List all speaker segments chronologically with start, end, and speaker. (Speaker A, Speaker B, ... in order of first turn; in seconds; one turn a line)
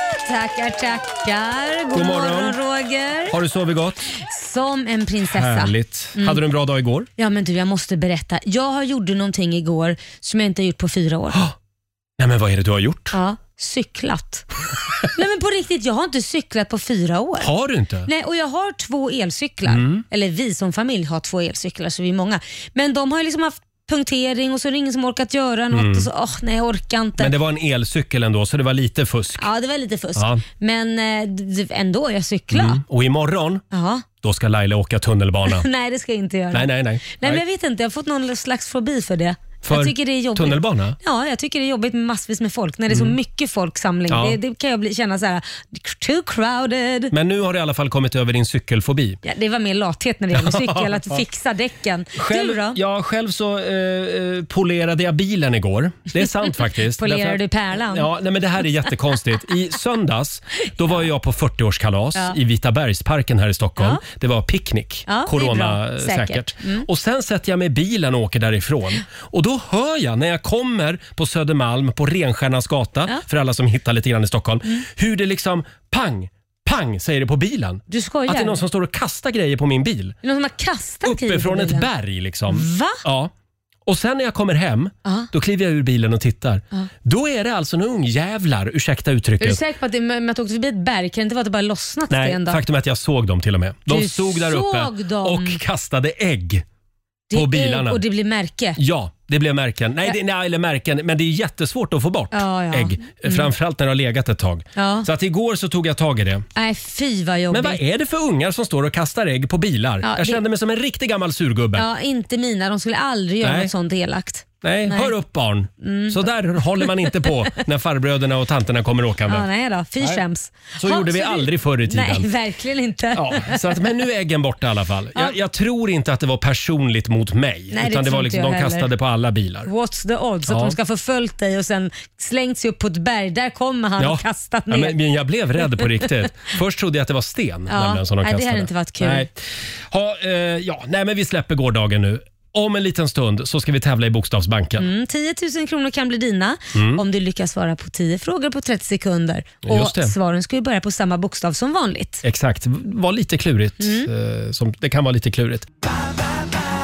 Speaker A: 0.2-3.4
Speaker B: 1.9-2.6
Speaker B: 3.3-4.1
Speaker A: 4.2-6.4
Speaker B: 5.3-7.1
Speaker A: 7.2-11.4
Speaker B: 12.2-13.2
Speaker A: 13.1-14.5
Speaker A: 15.0-17.5
Speaker B: 17.4-18.1
Speaker A: 18.1-27.3
Speaker B: 19.7-20.0
Speaker B: 25.7-26.1
Speaker B: 27.2-29.5
Speaker A: 29.4-32.8
Speaker B: 30.1-30.4
Speaker B: 32.5-33.6
Speaker A: 33.7-34.0
Speaker B: 34.2-35.7
Speaker A: 35.5-47.1
Speaker B: 36.5-37.4
Speaker B: 39.6-41.0
Speaker B: 42.9-43.2
Speaker B: 44.1-44.4
Speaker B: 47.1-49.2
Speaker A: 49.2-52.8
Speaker B: 50.3-51.2
Speaker B: 52.2-80.2
Speaker A: 57.0-58.1
Speaker A: 65.1-66.9
Speaker A: 77.9-78.6
Speaker A: 80.2-81.9
Speaker B: 81.0-83.3
Speaker A: 82.5-83.0
Speaker B: 83.9-89.6
Speaker A: 89.4-92.6
Speaker B: 92.1-96.7
Speaker A: 93.9-95.6
Speaker A: 97.3-98.8
Speaker B: 97.3-98.0
Speaker B: 98.8-106.5
Speaker A: 102.3-103.5
Speaker A: 104.8-105.1
Speaker A: 106.6-107.8
Speaker B: 107.5-111.9
Speaker A: 110.0-110.4
Speaker A: 111.8-115.1
Speaker B: 113.4-113.7
Speaker B: 114.6-119.5
Speaker A: 115.8-116.2
Speaker A: 116.8-117.1
Speaker A: 119.3-123.7
Speaker B: 120.8-122.3
Speaker B: 123.1-129.7
Speaker A: 127.7-128.9
Speaker A: 129.7-135.0
Speaker B: 130.5-130.8
Speaker B: 134.0-144.9
Speaker A: 137.7-139.3
Speaker A: 144.8-152.2
Speaker B: 146.7-147.0
Speaker B: 149.6-150.1
Speaker B: 152.2-155.7
Speaker A: 153.8-154.1